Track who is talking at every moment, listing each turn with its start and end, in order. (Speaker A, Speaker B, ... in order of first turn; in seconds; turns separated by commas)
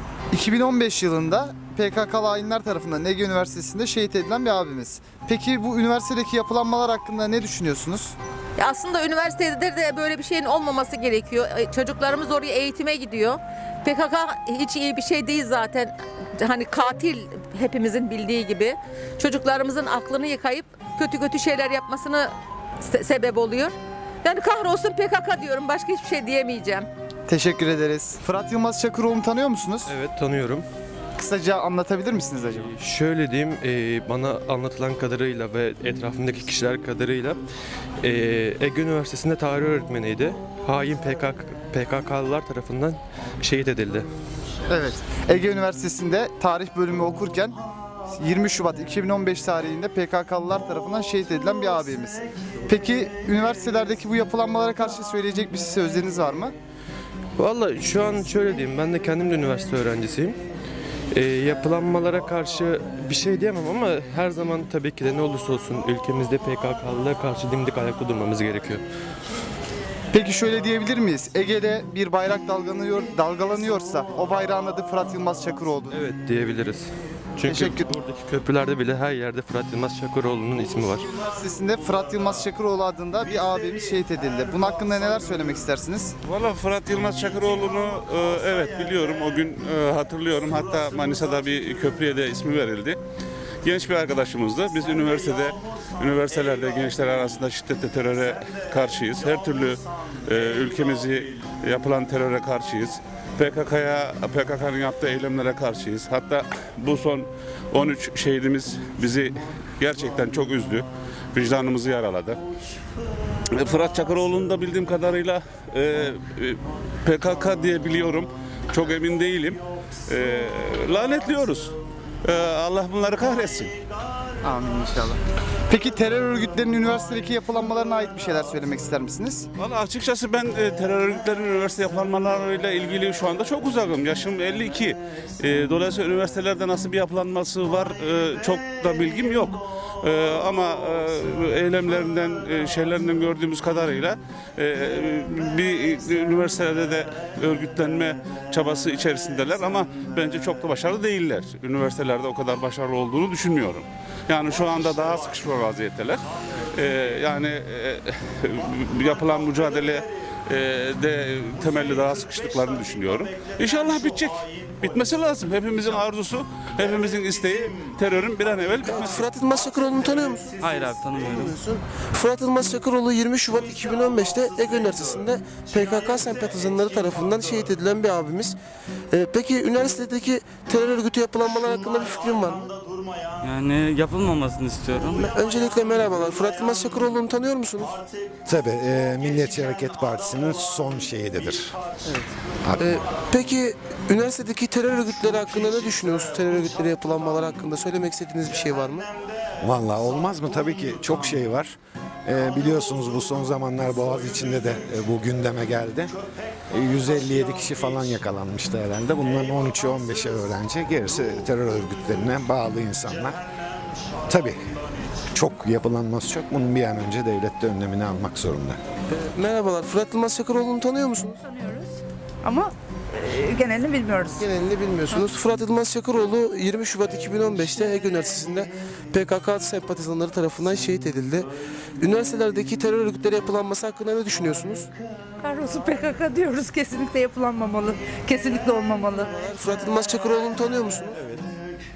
Speaker A: 0.3-8.2, Speaker B: 8.6-26.9, Speaker A: 27.3-29.9, Speaker C: 29.9-30.6, Speaker A: 31.2-32.7, Speaker C: 32.6-37.4, Speaker C: 38.0-44.1, Speaker A: 44.7-56.5, Speaker C: 57.4-60.4, Speaker C: 61.1-68.8, Speaker A: 70.1-75.9, Speaker C: 75.9-81.1, Speaker A: 77.5-77.9, Speaker A: 81.3-86.1, Speaker D: 86.2-93.0, Speaker D: 93.6-112.4, Speaker D: 113.5-123.7, Speaker A: 124.4-129.5, Speaker D: 129.6-169.2, Speaker E: 168.8-170.5, Speaker F: 170.6-171.5, Speaker E: 171.3-178.6, Speaker E: 179.1-182.7, Speaker F: 183.4-185.2, Speaker E: 185.1-188.0, Speaker G: 188.4-191.8, Speaker G: 192.6-193.0, Speaker E: 192.8-199.1, Speaker G: 199.6-206.1, Speaker G: 206.7-213.4, Speaker G: 214.3-214.6, Speaker G: 215.3-218.8, Speaker E: 219.1-221.4, Speaker H: 221.4-224.4, Speaker E: 224.4-234.9, Speaker H: 235.4-239.3, Speaker E: 239.3-241.2